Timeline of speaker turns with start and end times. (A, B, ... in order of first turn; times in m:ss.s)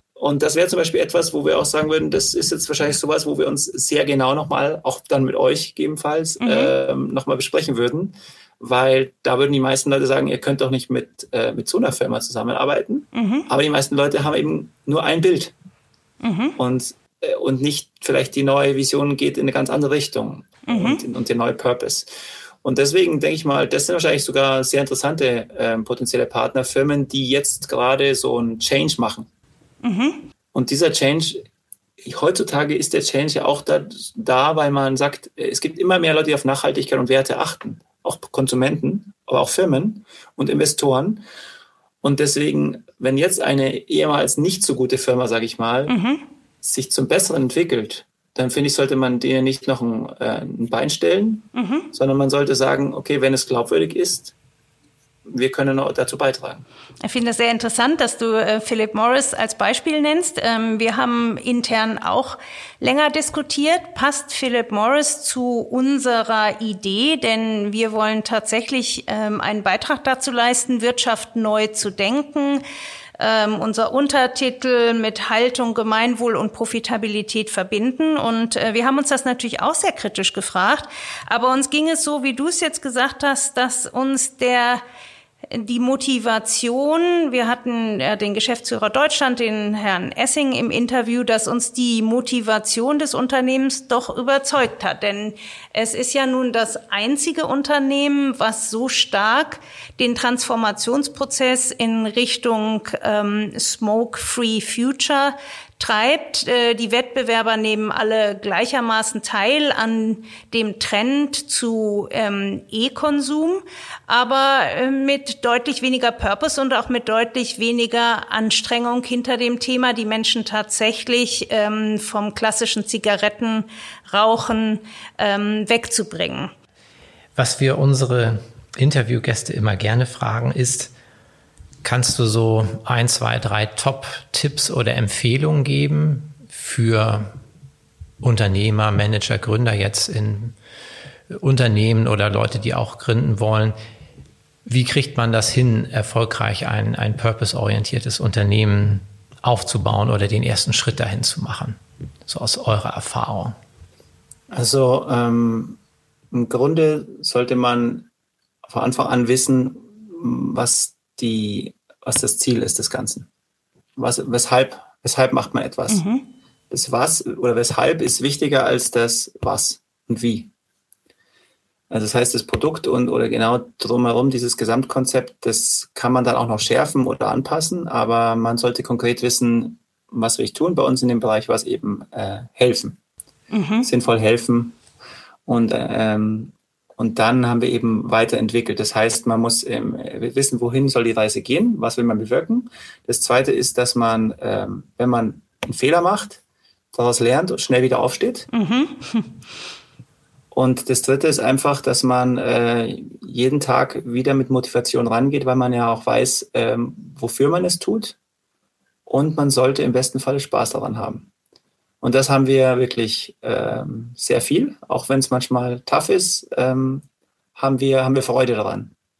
0:00.2-0:15.5 A
0:06.4-0:06.7 B
0:13.1-0:13.5 B
0:16.2-0:16.6 B
0:16.6-0:22.1 A
0:20.6-0:21.0 B
0:22.6-0:29.3 A
0:29.8-0:30.3 B
0:30.5-0:31.4 A
0:32.0-0:41.2 A
0:42.0-0:45.9 A
0:45.9-0:46.2 B
0:46.6-0:54.3 A
0:51.5-0:51.9 B
0:55.2-0:56.6 A
0:57.0-1:12.6 B
1:13.2-1:24.8 B
1:25.5-2:06.5 B
2:07.4-2:10.9 C
2:11.8-2:17.4 C
2:18.2-2:20.6 C
2:21.3-2:23.8 C
2:24.6-2:33.6 C
2:34.5-2:35.8 A
2:36.3-2:38.1 A
2:38.6-2:43.3 A
2:44.0-2:46.0 A
2:45.9-2:46.2 B
2:46.7-2:50.5 A
2:51.9-3:03.0 A
3:03.5-3:03.9 B
3:03.8-3:04.8 A
3:05.4-3:16.4 A
3:16.9-3:18.5 A
3:18.5-3:19.3 B
3:20.5-3:28.2 A
3:29.1-3:31.3 A
3:32.0-3:37.0 A
3:37.6-3:38.9 A